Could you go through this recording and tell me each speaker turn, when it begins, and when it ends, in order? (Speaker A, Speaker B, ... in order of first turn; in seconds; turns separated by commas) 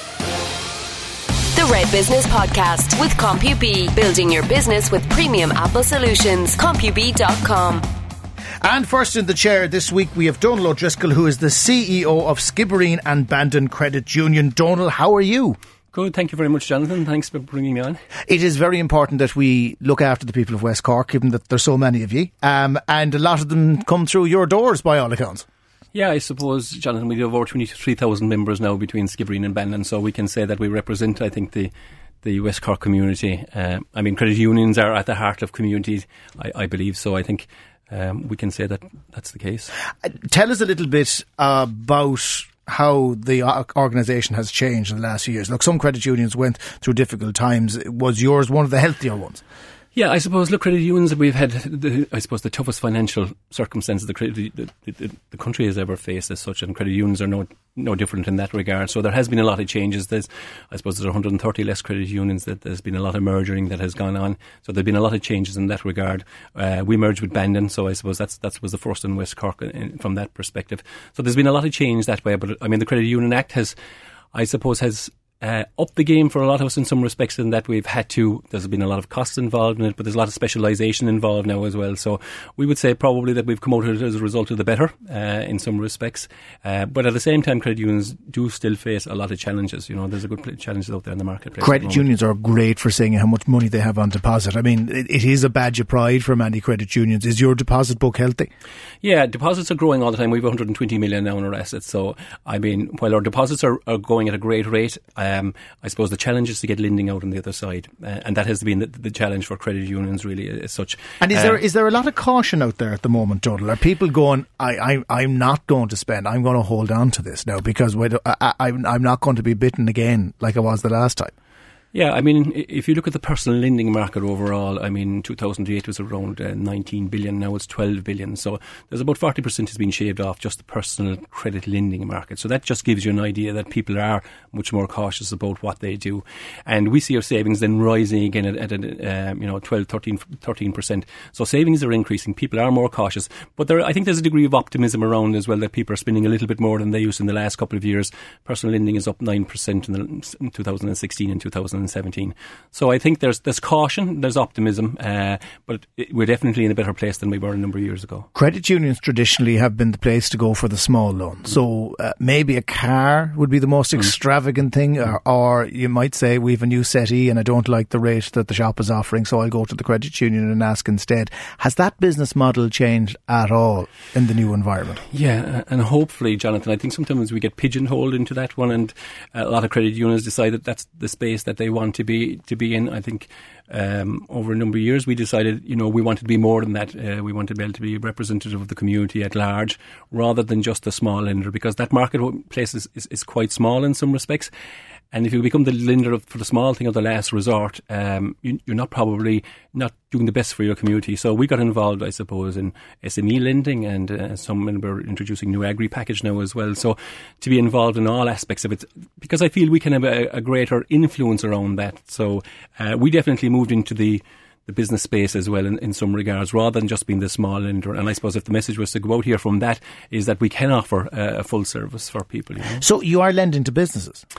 Speaker A: 1.5-7.9, Speaker B: 8.6-15.6, Speaker C: 15.9-18.0, Speaker B: 18.3-25.5, Speaker C: 25.9-31.7, Speaker C: 32.2-39.7, Speaker B: 40.0-49.4, Speaker C: 50.0-73.8, Speaker C: 74.3-92.0, Speaker B: 91.6-98.5, Speaker C: 99.0-111.6, Speaker B: 111.2-121.3, Speaker C: 121.9-158.3, Speaker B: 158.3-175.0, Speaker C: 175.1-194.5, Speaker C: 195.1-222.8, Speaker B: 222.8-224.2